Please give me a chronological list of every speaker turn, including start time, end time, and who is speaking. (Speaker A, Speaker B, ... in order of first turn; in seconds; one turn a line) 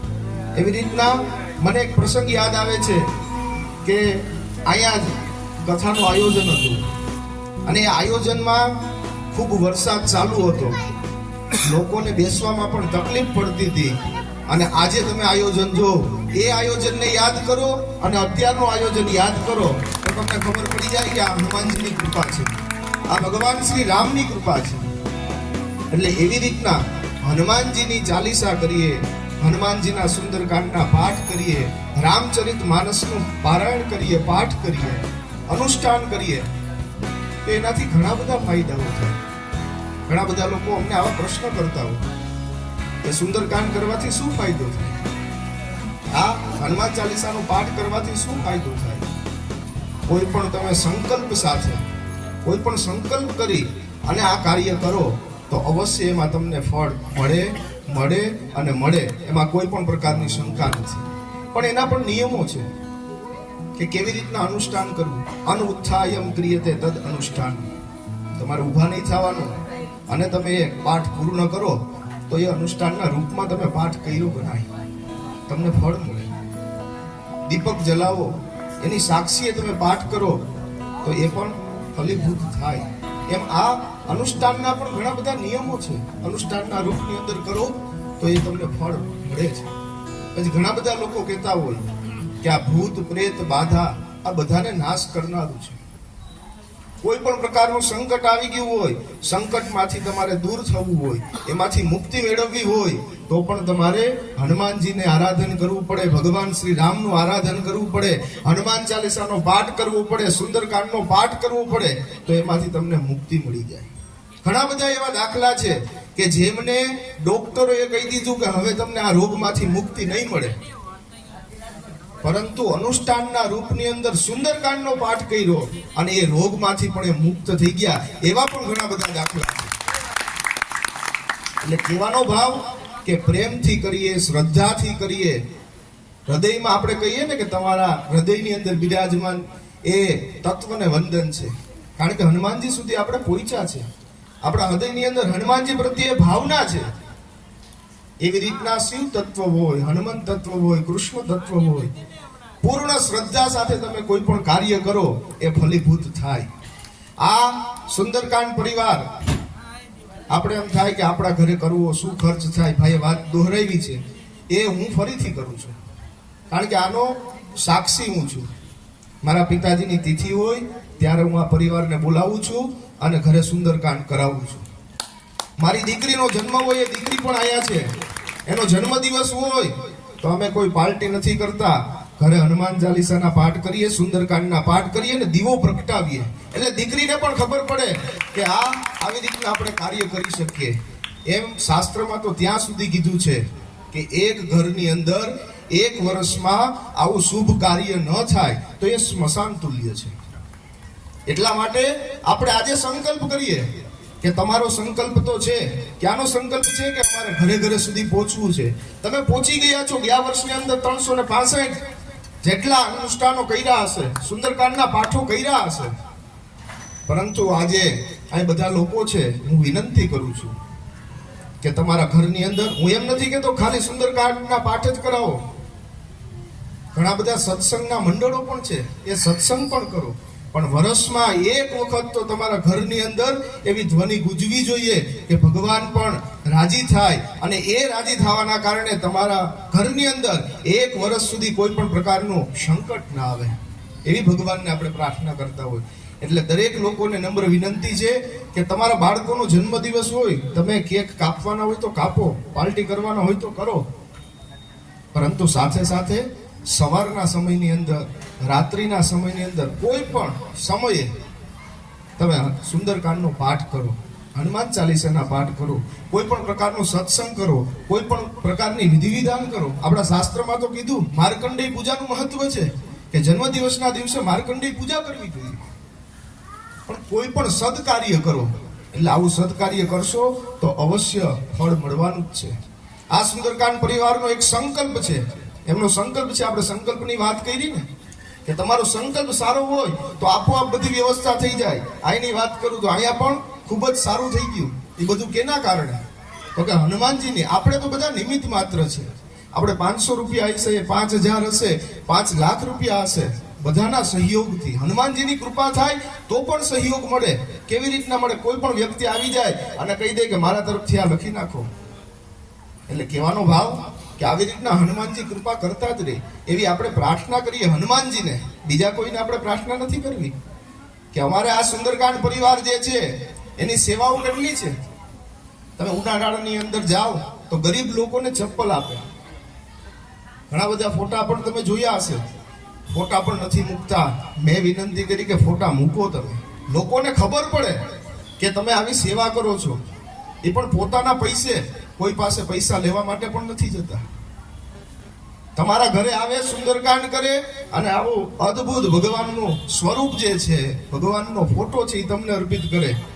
Speaker A: 0.5-3.1
Speaker A: 3.8-6.8
Speaker A: 7.7-8.8
Speaker A: 9.3-10.8
Speaker A: 11.6-13.9
Speaker A: 14.5-24.9
Speaker A: 25.9-36.5
Speaker A: 37.4-39.2
Speaker A: 40.1-42.0
Speaker A: 43.0-45.0
Speaker A: 46.1-49.1
Speaker A: 50.1-51.8
Speaker A: 52.4-62.7
Speaker A: 63.8-67.7
Speaker A: 68.3-74.7
Speaker A: 75.5-76.3
Speaker A: 77.5-80.4
Speaker A: 81.0-89.7
Speaker A: 90.3-91.8
Speaker A: 92.4-95.8
Speaker A: 97.0-113.9
Speaker A: 114.4-120.6
Speaker A: 122.2-129.7
Speaker A: 131.6-135.4
Speaker A: 136.3-143.8
Speaker A: 144.4-146.9
Speaker A: 148.2-151.9
Speaker A: 152.6-156.5
Speaker A: 157.2-159.1
Speaker A: 160.3-165.7
Speaker A: 166.5-168.5
Speaker A: 169.2-174.6
Speaker A: 175.6-177.9
Speaker A: 178.5-190.8
Speaker A: 191.3-200.2
Speaker A: 201.3-203.7
Speaker A: 204.2-211.8
Speaker A: 212.4-215.9
Speaker A: 217.1-220.5
Speaker A: 221.6-225.4
Speaker A: 226.9-253.8
Speaker A: 255.1-261.1
Speaker A: 262.2-275.6
Speaker A: 276.9-282.5
Speaker A: 283.1-287.9
Speaker A: 288.4-296.0
Speaker A: 296.5-311.7
Speaker A: 312.9-320.3
Speaker A: 321.1-324.7
Speaker A: 325.8-329.1
Speaker A: 330.5-332.2
Speaker A: 332.9-337.8
Speaker A: 338.4-339.8
Speaker A: 340.4-344.0
Speaker A: 345.6-353.0